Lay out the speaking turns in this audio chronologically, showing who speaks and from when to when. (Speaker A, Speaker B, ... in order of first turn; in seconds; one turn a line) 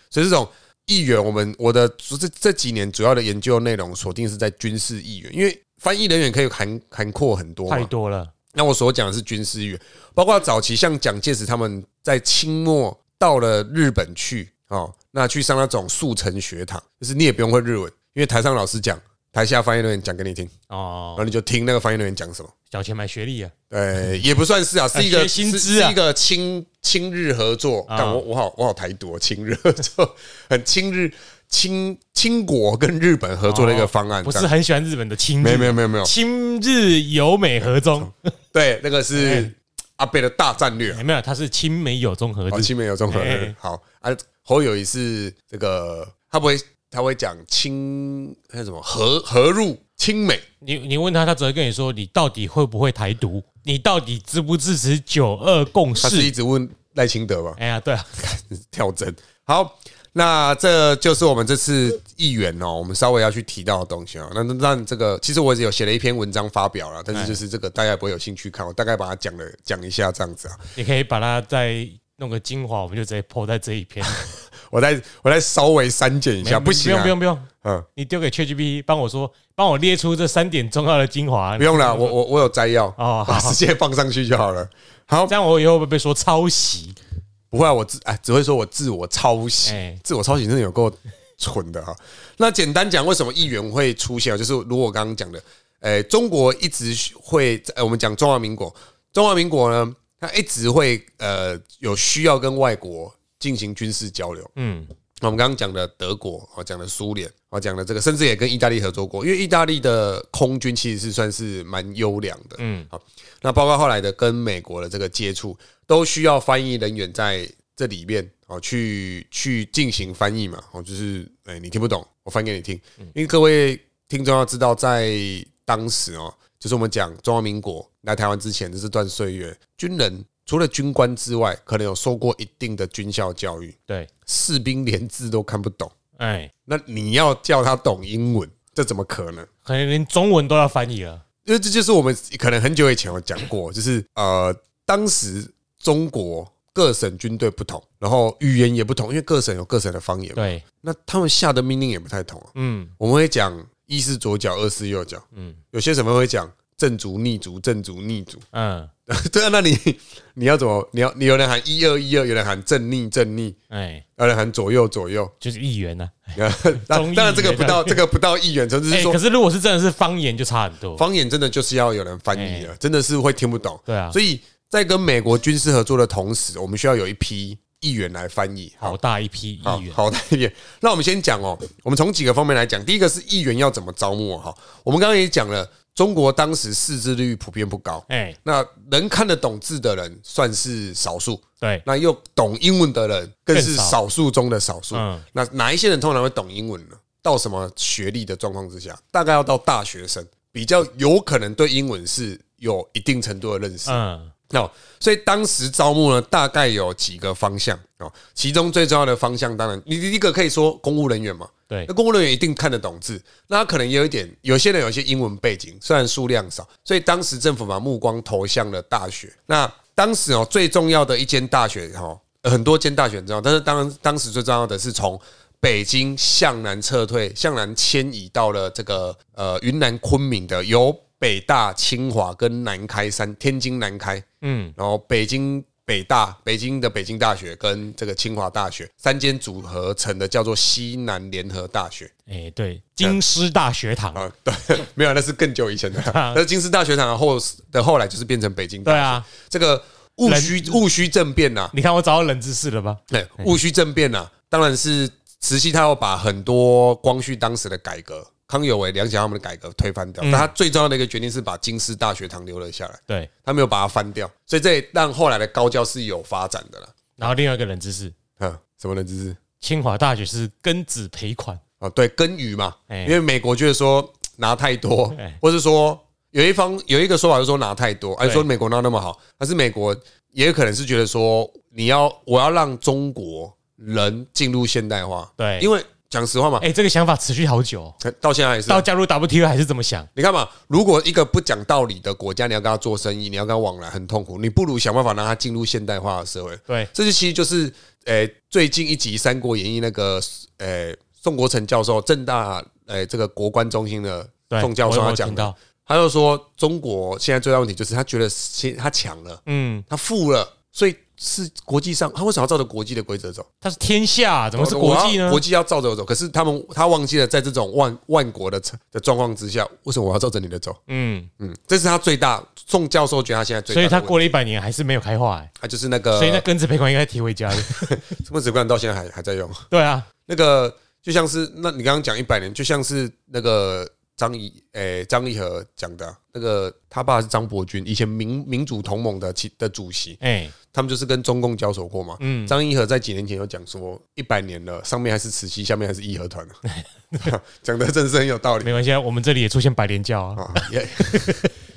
Speaker A: 0.1-7.9
Speaker B: 7.7-8.3
Speaker A: 8.5-20.5
Speaker B: 20.7-21.3
Speaker A: 21.2-22.5
Speaker B: 22.7-23.5
Speaker A: 23.7-34.5
Speaker B: 24.9-26.0
Speaker B: 27.9-28.2
Speaker B: 33.4-38.1
Speaker A: 35.4-36.1
Speaker A: 38.0-41.0
Speaker B: 39.1-39.5
Speaker B: 40.9-43.5
Speaker A: 42.5-50.5
Speaker B: 50.6-56.3
Speaker A: 56.0-57.6
Speaker B: 57.6-58.1
Speaker A: 58.1-70.6
Speaker B: 67.1-67.4
Speaker B: 70.8-74.2
Speaker A: 74.0-77.9
Speaker B: 76.4-82.2
Speaker A: 81.6-85.3
Speaker B: 83.0-83.6
Speaker B: 85.3-87.0
Speaker A: 87.5-104.5
Speaker B: 89.6-90.0
Speaker B: 104.5-104.9
Speaker A: 105.2-135.9
Speaker B: 112.6-112.9
Speaker B: 136.2-136.5
Speaker A: 136.7-139.5
Speaker B: 139.6-141.2
Speaker A: 141.4-158.4
Speaker B: 150.3-150.6
Speaker B: 152.5-152.9
Speaker B: 155.3-155.6
Speaker B: 158.5-158.9
Speaker A: 159.1-163.6
Speaker B: 163.7-164.0
Speaker A: 164.2-165.3
Speaker B: 165.4-168.0
Speaker A: 166.3-169.2
Speaker B: 168.9-171.0
Speaker A: 170.9-179.0
Speaker B: 172.3-172.7
Speaker B: 173.9-174.2
Speaker B: 178.8-180.0
Speaker A: 179.6-204.0
Speaker B: 188.1-188.4
Speaker B: 193.5-193.9
Speaker B: 194.9-195.2
Speaker B: 203.8-204.3
Speaker A: 204.5-234.2
Speaker B: 234.4-234.7
Speaker A: 234.8-242.1
Speaker B: 242.3-244.2
Speaker A: 244.1-251.7
Speaker B: 246.0-246.4
Speaker B: 248.8-249.2
Speaker B: 250.2-250.8
Speaker B: 251.7-253.5
Speaker A: 253.1-267.3
Speaker B: 260.2-260.5
Speaker B: 267.2-268.1
Speaker A: 268.4-269.4
Speaker B: 269.6-271.6
Speaker A: 271.8-286.6
Speaker B: 272.9-273.2
Speaker B: 285.4-285.7
Speaker B: 286.6-288.0
Speaker A: 288.0-288.8
Speaker B: 288.7-290.1
Speaker A: 290.1-313.5
Speaker B: 304.5-305.6
Speaker B: 309.4-309.8
Speaker B: 313.6-315.4
Speaker A: 314.6-320.8
Speaker B: 320.9-321.3
Speaker A: 321.4-324.3
Speaker B: 323.7-325.5
Speaker A: 325.6-326.4
Speaker B: 326.1-328.0
Speaker A: 327.5-329.6
Speaker B: 329.7-330.1
Speaker A: 330.2-340.2
Speaker B: 340.2-340.5
Speaker A: 340.7-346.6
Speaker B: 342.2-342.6
Speaker B: 346.6-347.3
Speaker A: 347.2-348.7
Speaker B: 348.6-351.5
Speaker A: 350.4-351.5